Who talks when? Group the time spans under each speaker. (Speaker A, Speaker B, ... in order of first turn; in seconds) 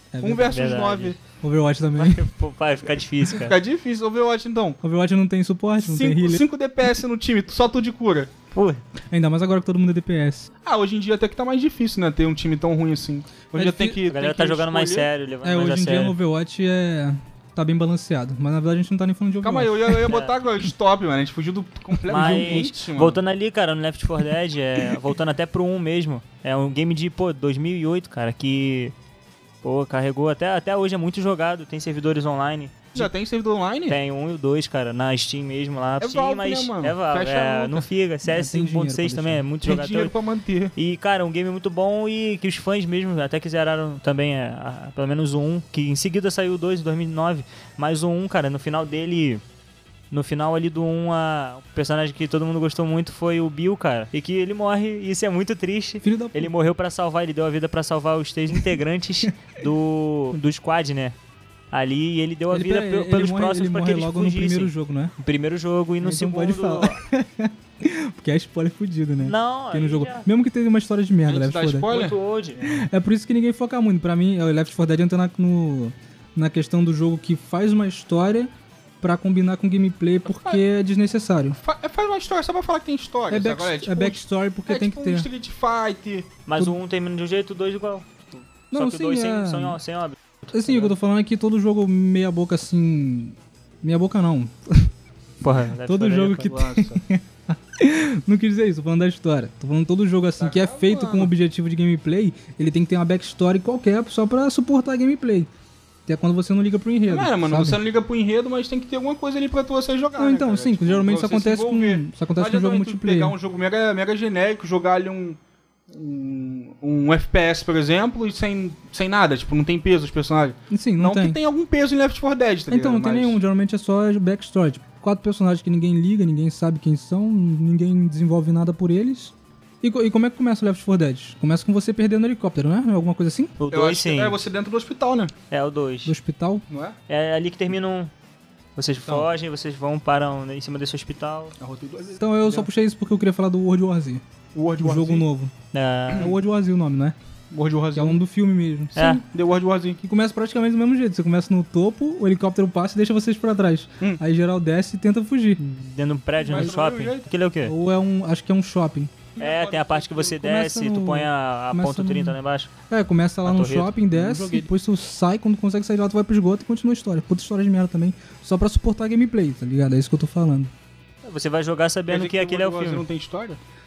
Speaker A: 0.1-0.6, 1.4-2.2, 4.8-6.4, 9.1-10.5, 13.5-14.0, 15.4-20.1, 22.1-22.6, 38.2-39.5, 56.0-56.5, 62.5-65.1, 66.0-71.9, 72.6-78.5, 79.0-81.6, 83.3-85.3, 88.7-89.8, 90.5-94.9, 95.8-105.5, 106.1-107.8, 110.2-113.3, 120.7-121.4, 122.7-133.6, 136.0-136.6, 142.2-144.2, 144.8-145.5, 146.2-147.2, 147.9-148.9, 150.0-155.6, 156.5-156.8, 157.6-159.2, 160.4-162.4, 162.9-170.7
Speaker B: 0.2-1.2, 3.2-4.8, 5.8-8.3, 10.6-15.1, 19.4-23.2, 32.9-34.0, 36.0-37.9, 39.6-40.7, 71.3-72.2, 80.2-80.6, 81.6-86.3, 96.4-97.0, 100.4-101.3, 107.1-115.4, 115.9-123.4, 133.7-135.3, 136.7-136.9, 139.0-139.3, 141.6-142.2, 144.5-145.3, 147.5-148.2, 148.9-150.0, 156.4-157.3, 159.3-160.4, 164.1-164.7, 172.1-173.6
Speaker C: 0.5-1.1, 1.9-3.5, 8.5-8.8, 14.1-16.2, 22.1-28.9, 29.6-33.1, 33.9-40.1, 40.8-49.4, 50.1-61.1, 61.7-67.0, 69.2-70.3, 71.9-72.6, 86.5-90.9, 95.4-96.5, 133.6-134.4, 135.5-136.1, 137.1-138.1, 138.8-141.5, 145.7-146.3, 148.9-149.2, 155.6-157.7, 159.4-162.7, 163.4-163.9, 171.2-173.0